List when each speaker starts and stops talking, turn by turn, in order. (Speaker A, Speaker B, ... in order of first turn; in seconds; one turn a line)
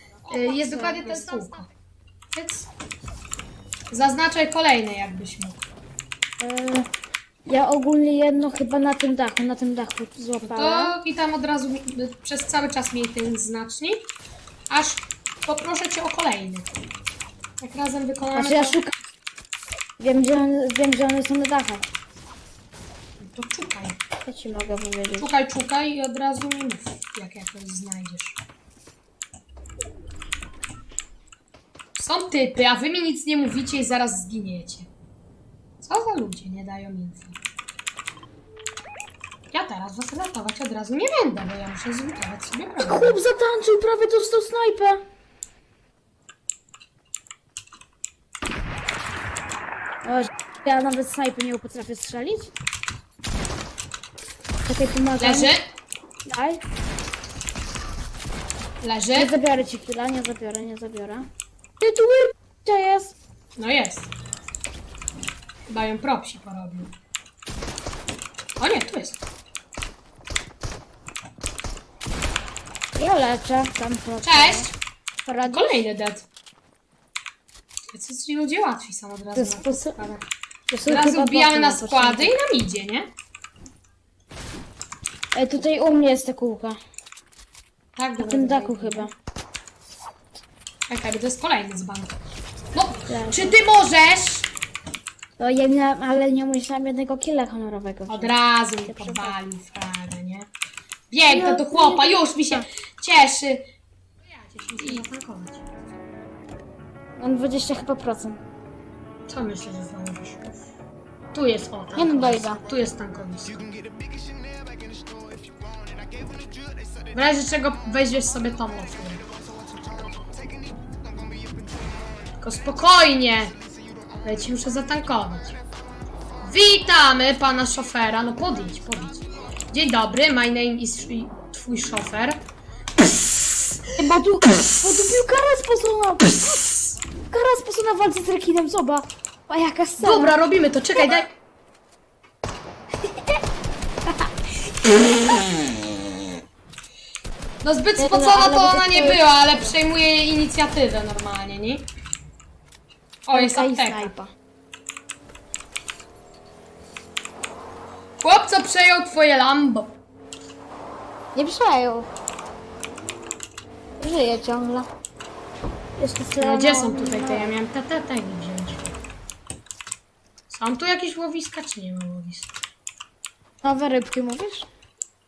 Speaker A: 0.2-1.7
Speaker B: 0.3-1.7
Speaker B: 2.3-2.7
Speaker B: 3.9-5.6
Speaker A: 6.4-6.9
Speaker A: 7.5-10.9
Speaker B: 10.4-14.1
Speaker B: 14.7-16.7
Speaker B: 17.6-18.8
Speaker A: 18.4-18.9
Speaker A: 20.0-21.9
Speaker B: 23.2-24.0
Speaker A: 24.2-25.3
Speaker B: 25.2-28.4
Speaker B: 32.0-34.9
Speaker B: 35.8-37.4
Speaker B: 39.5-43.2
Speaker A: 42.8-45.0
Speaker A: 50.0-52.5
Speaker A: 54.7-55.5
Speaker B: 55.2-55.6
Speaker A: 56.2-56.6
Speaker B: 58.8-59.3
Speaker A: 59.2-61.3
Speaker A: 61.8-63.1
Speaker B: 63.6-64.1
Speaker B: 65.7-66.9
Speaker B: 68.6-69.2
Speaker A: 73.0-74.7
Speaker B: 74.2-74.7
Speaker A: 75.2-75.8
Speaker B: 75.5-76.3
Speaker B: 77.9-80.2
Speaker A: 79.3-80.0
Speaker A: 80.7-82.3
Speaker B: 80.9-83.1
Speaker A: 85.3-86.8
Speaker B: 88.0-89.1
Speaker A: 88.2-89.1
Speaker B: 90.9-92.2
Speaker B: 92.7-94.5
Speaker A: 93.1-93.6
Speaker A: 95.4-98.3
Speaker B: 98.1-100.5
Speaker A: 98.8-99.3
Speaker B: 101.1-103.7
Speaker A: 101.3-102.7
Speaker B: 104.2-105.6
Speaker A: 107.2-108.4
Speaker B: 109.3-110.5
Speaker B: 111.3-113.8
Speaker A: 112.0-112.6
Speaker B: 117.1-119.2
Speaker B: 122.4-123.6
Speaker B: 124.2-125.6
Speaker B: 126.4-132.4
Speaker A: 134.0-140.4
Speaker B: 140.0-141.3
Speaker B: 147.6-151.9
Speaker A: 148.0-149.8
Speaker B: 153.3-154.1
Speaker A: 153.3-154.3
Speaker B: 158.2-160.0
Speaker A: 161.3-162.1
Speaker A: 164.0-164.9
Speaker A: 166.0-167.5
Speaker B: 166.4-168.8
Speaker B: 170.5-172.5
Speaker A: 173.6-174.7